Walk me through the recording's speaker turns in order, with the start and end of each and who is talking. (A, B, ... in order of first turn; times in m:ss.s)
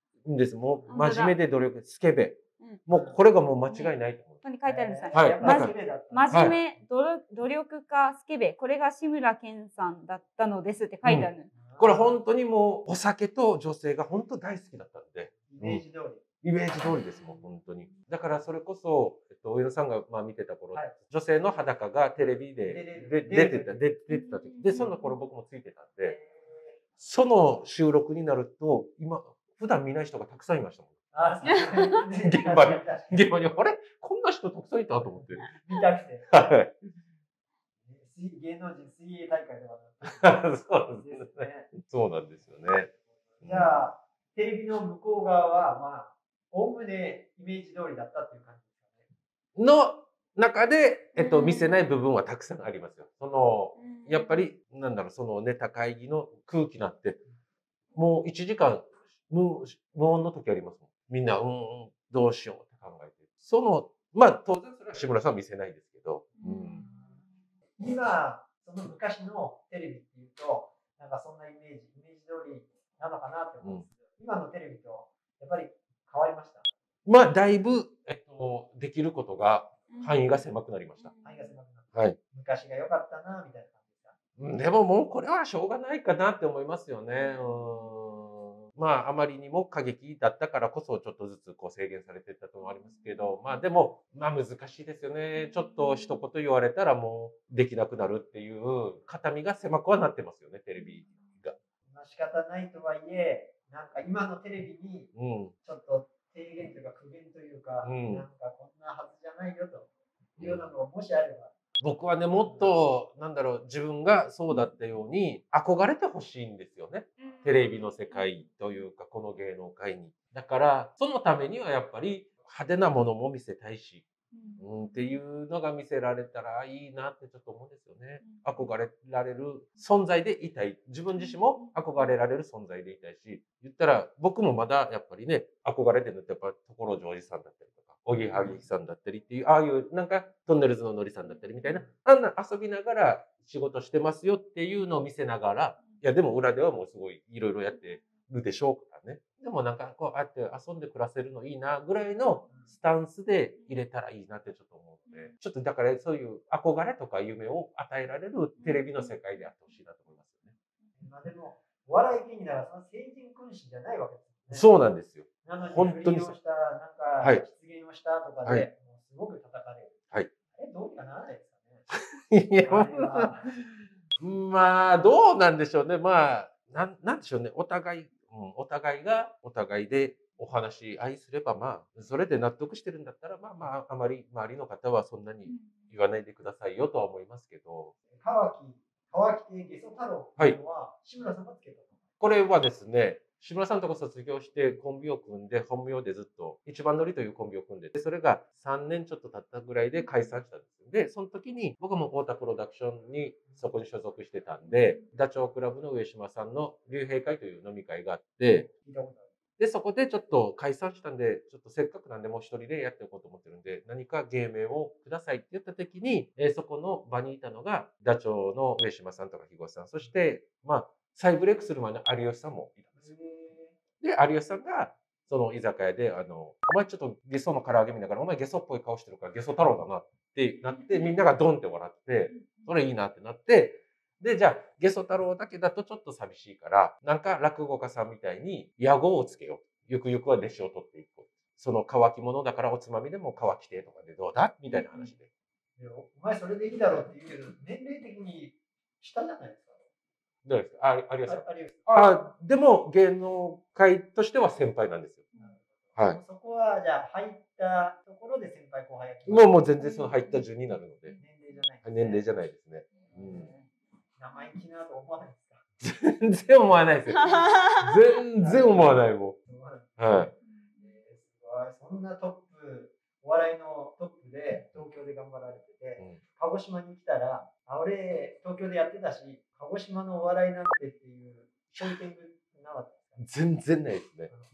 0:00.2-0:04.4 A
0:00.9-0:01.4 B
0:02.9-0:03.1 C
0:03.7-0:11.5 B
0:04.6-0:06.5 C
0:05.1-0:05.7 A
0:06.3-0:06.6 A
0:11.0-0:15.8 A
0:11.5-0:12.1 C
0:15.5-0:16.2 C
0:16.4-0:26.2 A
0:16.9-0:17.4 B
0:22.6-0:23.8 C
0:24.1-0:25.1 B
0:26.0-0:26.8 C
0:27.0-0:31.0 A
0:31.1-0:33.3 C
0:31.4-0:32.0 B
0:31.8-0:35.5 A
0:35.4-0:36.4 C
0:36.3-0:36.7 A
0:37.8-0:41.7 C
0:40.2-0:42.9 A
0:43.4-0:49.0 C
0:43.4-0:43.7 A
0:49.6-0:57.2 A
0:51.2-0:51.9 B
0:53.8-0:54.5 B
0:57.9-1:06.8 A
1:06.4-1:07.3 B
1:06.8-1:07.1 C
1:07.8-1:16.7 C
1:17.0-1:21.1 A
1:19.9-1:20.2 B
1:21.0-1:21.5 B
1:21.2-1:24.1 C
1:24.4-1:41.5 A
1:27.2-1:28.2 B
1:32.6-1:33.4 B
1:40.8-1:41.1 B
1:41.9-1:51.5 C
1:45.2-1:45.5 A
1:47.8-1:48.2 A
1:50.4-1:50.6 A
1:51.8-2:04.0 A
1:57.2-1:58.4 B
2:04.3-2:05.2 B
2:04.6-2:40.5 A
2:08.2-2:08.6 B
2:11.2-2:12.1 B
2:38.6-2:39.2 B
2:41.0-2:44.7 C
2:44.5-2:46.3 A
2:45.4-2:50.0 C
2:50.5-2:51.8 C
2:51.9-2:53.6 A
2:52.6-2:53.5 C
2:54.2-3:07.9 A
3:05.4-3:05.9 B
3:08.1-3:11.9 C
3:12.2-3:28.7 A
3:28.6-3:29.3 C
3:29.6-3:43.0 A
3:43.0-3:43.7 C
3:44.0-4:05.3 A
3:50.7-3:51.1 B
3:52.3-3:52.7 B
4:04.7-4:05.1 B
4:05.8-4:09.8 C
4:10.4-4:15.3 A
4:11.2-4:11.8 C
4:15.4-4:19.6 C
4:19.3-4:21.1 A
4:19.8-4:20.4 B
4:21.2-4:22.2 C
4:21.8-4:23.5 A
4:23.0-4:23.6 B
4:23.1-4:23.5 C
4:24.2-4:25.6 C
4:25.8-4:29.4 A
4:27.4-4:27.7 B
4:28.4-4:43.2 C
4:30.0-4:30.3 A
4:30.5-4:30.8 B
4:43.2-4:44.3 A